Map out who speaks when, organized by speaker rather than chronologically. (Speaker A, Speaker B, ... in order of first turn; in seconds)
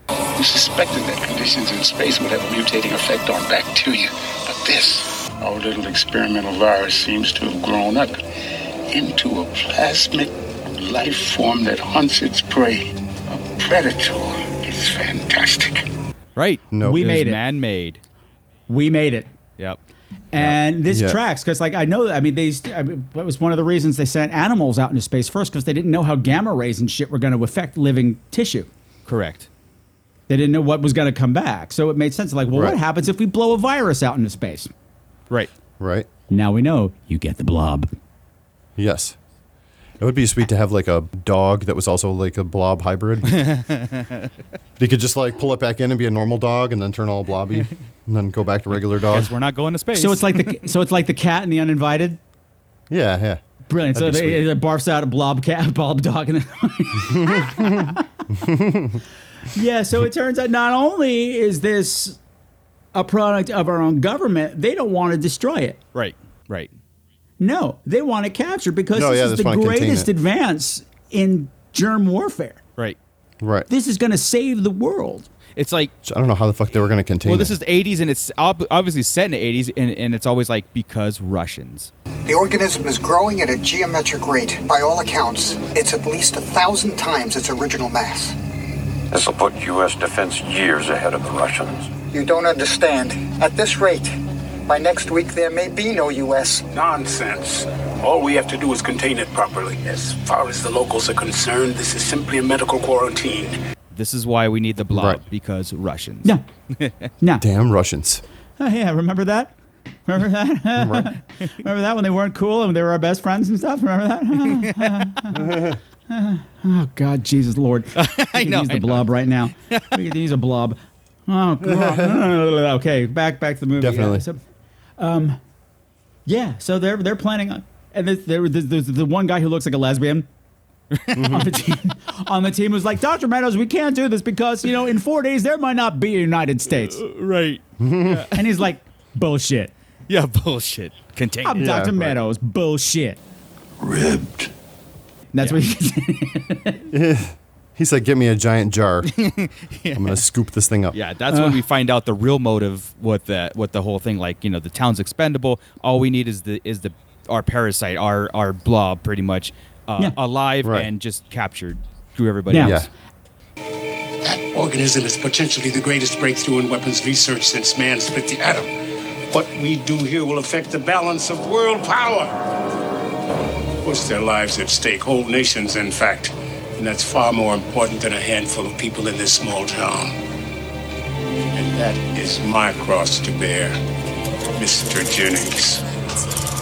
Speaker A: 0.4-8.2, 8.9-15.8
Speaker B: 16.4-18.0, 29.1-29.5, 43.3-44.3, 49.0-50.6, 65.9-66.7, 75.5-75.9, 77.2-81.9, 103.9-106.9, 114.5-115.0, 118.0-119.1, 130.9-131.3, 136.8-138.3, 140.1-141.9, 149.0-150.2, 150.9-162.9
Speaker C: 16.7-17.1, 20.4-21.2, 32.5-32.8, 35.8-36.1, 38.8-39.1, 40.0-43.5, 44.8-49.3, 52.9-53.4, 53.9-54.5, 57.2-59.0, 68.9-70.1, 73.4-73.7, 76.0-77.5, 104.9-105.2, 107.4-108.2, 110.8-111.1, 115.3-115.8, 121.6-122.2, 123.8-124.2, 131.1-131.5, 137.8-138.3, 141.6-142.1, 146.9-149.1, 149.9-150.9, 160.6-160.9, 162.6-162.9
Speaker D: 16.8-17.4, 18.7-19.3, 20.3-28.7, 30.3-34.7, 36.3-37.9, 49.9-52.2, 53.7-58.0, 59.5-62.2, 62.9-65.8, 67.4-72.6, 73.7-75.3, 108.6-109.5, 110.0-124.4, 125.0-125.4, 126.2-130.3, 131.2-137.0, 138.3-139.7, 141.4-143.2, 145.3-146.8, 151.3-151.6, 162.5-162.8
Speaker E: 82.3-88.3, 92.1-94.1, 94.7-96.6
Speaker F: 89.1-91.9, 143.8-144.4
Speaker G: 96.8-103.1, 164.3-168.6, 169.3-172.3, 173.8-180.1, 181.7-183.7, 185.4-185.8